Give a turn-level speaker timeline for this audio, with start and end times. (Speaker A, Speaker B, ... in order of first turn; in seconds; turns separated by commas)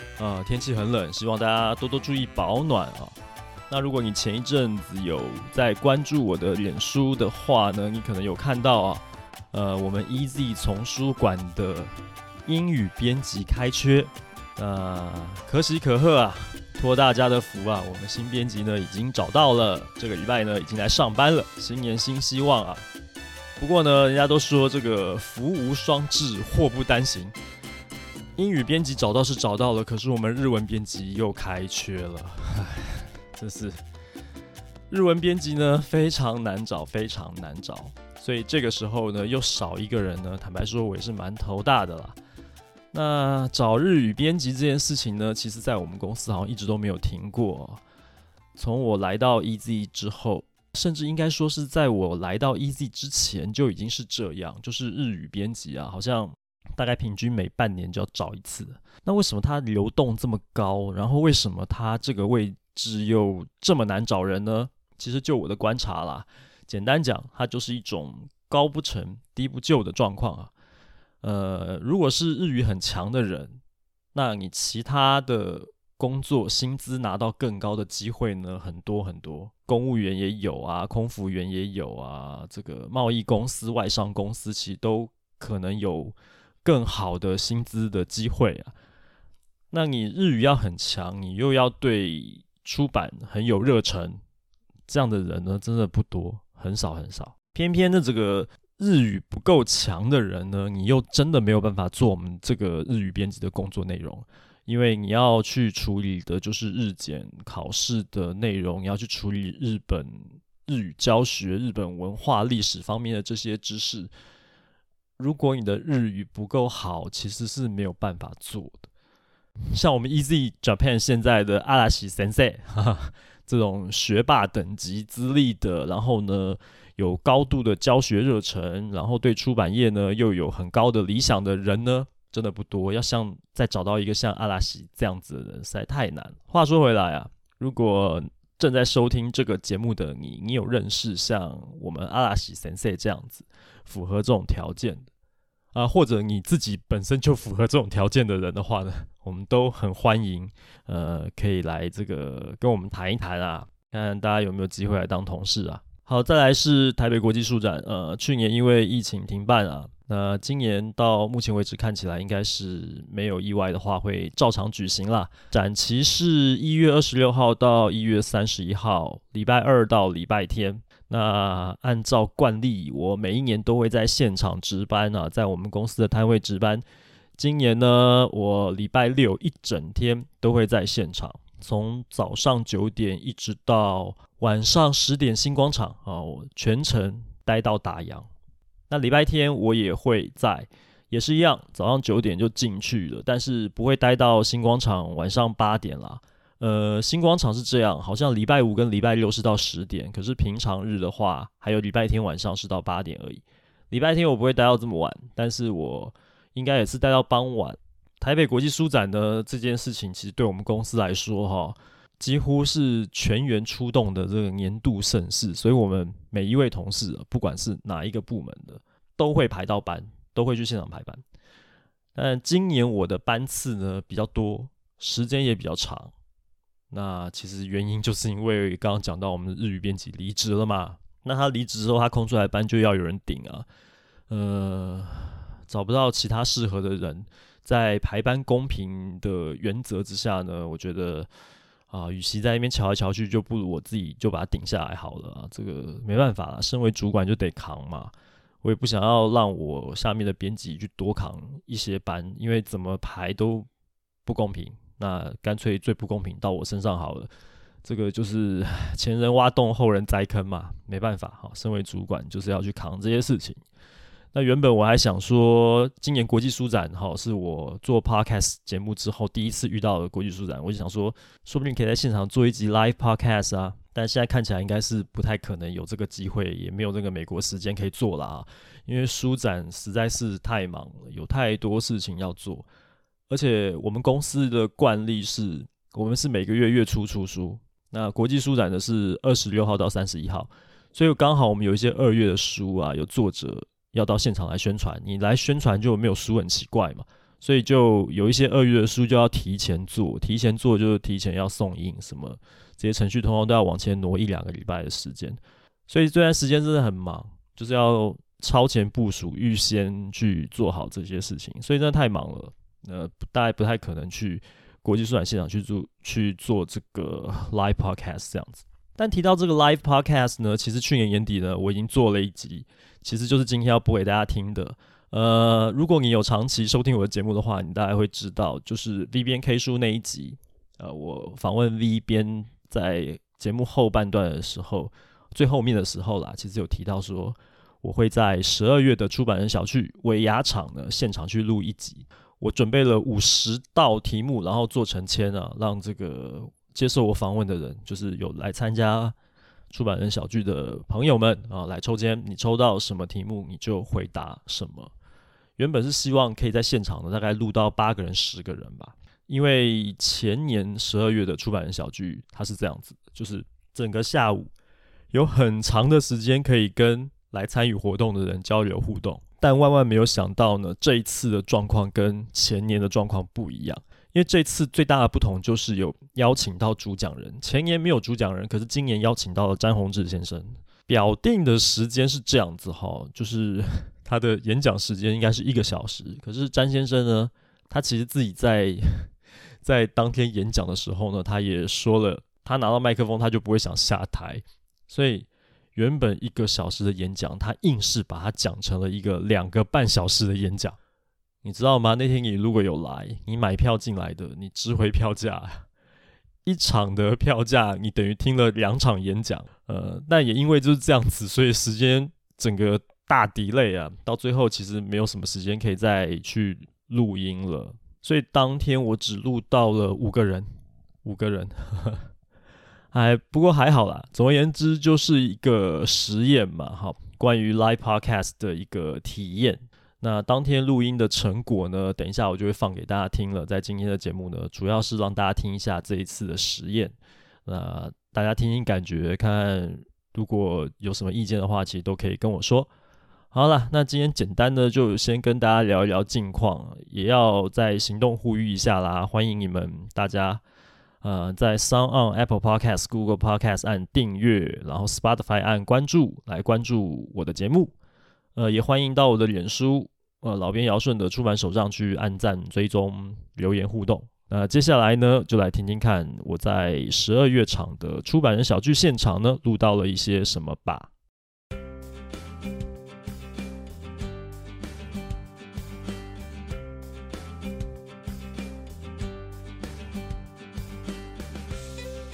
Speaker A: 0.2-3.1, Speaker A: 3.7-11.9, Speaker A: 12.5-22.9, Speaker A: 23.6-27.4, Speaker A: 28.4-33.8, Speaker A: 34.9-42.2, Speaker A: 42.9-47.8, Speaker A: 48.6-70.5, Speaker A: 71.2-73.6, Speaker A: 74.1-88.7, Speaker A: 89.7-94.2, Speaker A: 94.9-114.1, Speaker A: 115.2-118.9, Speaker A: 119.7-145.1, Speaker A: 145.7-176.8, Speaker A: 177.4-188.3, Speaker A: 188.9-221.2, Speaker A: 222.2-226.1, Speaker A: 226.9-233.7, Speaker A: 234.3-241.3, Speaker A: 241.9-248.1, Speaker A: 248.6-253.7, Speaker A: 254.2-257.3, Speaker A: 257.8-263.6, Speaker A: 264.3-282.7, Speaker A: 283.3-349.1, Speaker A: 349.7-354.9, Speaker A: 355.6-364.5, Speaker A: 365.1-389.1, Speaker A: 389.6-400.8, Speaker A: 401.4-405.6, Speaker A: 406.4-420.5, Speaker A: 421.0-422.1, Speaker A: 422.9-436.9, Speaker A: 437.5-442.7, Speaker A: 443.3-450.4, Speaker A: 451.0-457.7, Speaker A: 458.4-470.9